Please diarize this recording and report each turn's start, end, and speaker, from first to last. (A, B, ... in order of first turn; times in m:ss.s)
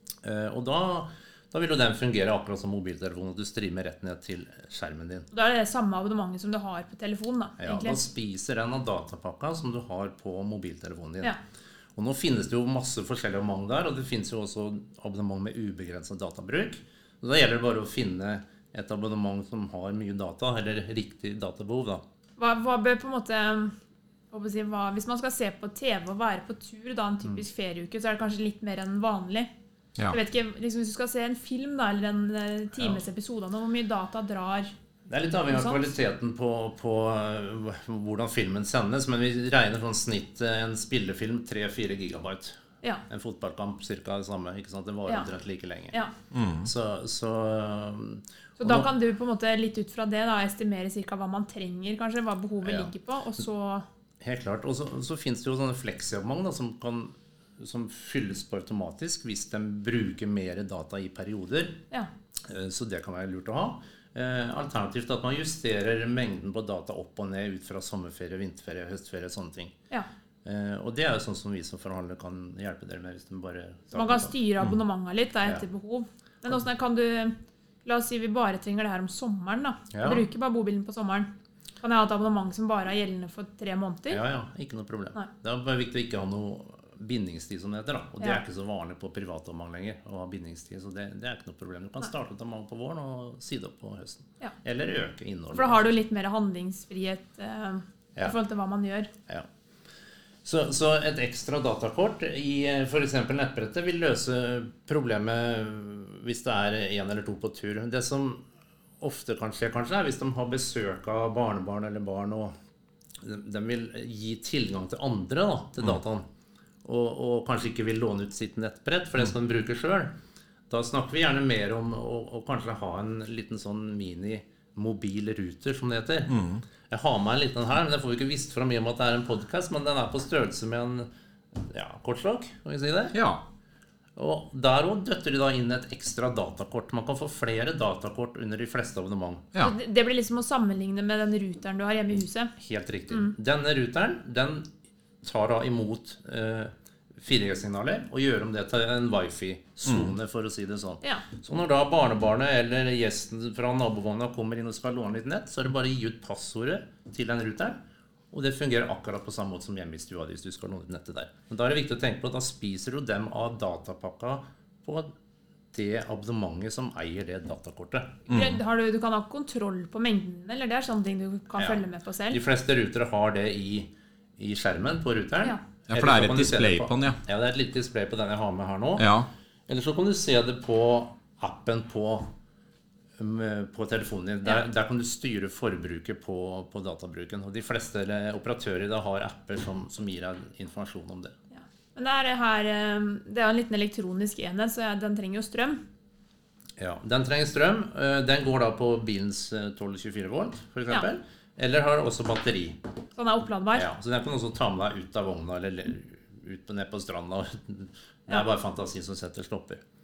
0:00.2-0:05.3 A
0:05.3-0:08.0 B
0:07.6-0:11.4 A
0:12.0-0:22.0 A
0:22.4-0:23.8 B
0:24.3-0:29.5 B
0:30.1-0:34.7 B
0:32.8-0:33.0 A
0:35.1-0:46.0 A
0:35.5-0:35.9 B
0:46.3-0:46.7 C
0:46.6-0:48.9 A
0:48.6-0:53.9 B
0:52.6-0:52.9 A
0:54.2-1:01.8 A
1:02.5-1:09.8 A
1:10.4-1:14.3 A
1:13.9-1:24.2 B
1:19.9-1:20.2 A
1:24.1-1:35.9 A
1:35.5-1:39.1 B
1:40.4-1:48.4 A
1:49.0-1:52.6 A
1:53.2-1:56.3 A
1:56.8-2:00.2 A
2:00.7-2:06.4 A
2:06.3-2:06.6 C
2:06.9-2:13.2 A
2:13.1-2:13.4 C
2:14.2-2:19.5 A
2:19.6-2:22.5 B
2:22.6-2:24.7 A
2:25.2-2:37.8 A
2:38.3-2:45.1 A
2:45.7-2:48.2 A
2:48.3-2:48.6 C
2:48.3-2:52.4 B
2:51.6-2:59.1 A
2:55.9-2:57.2 C
2:59.0-2:59.3 C
2:59.7-3:02.3 A
3:03.2-3:11.4 A
3:11.6-3:15.8 B
3:16.8-3:22.8 A
3:23.2-3:23.9 B
3:23.7-3:29.8 A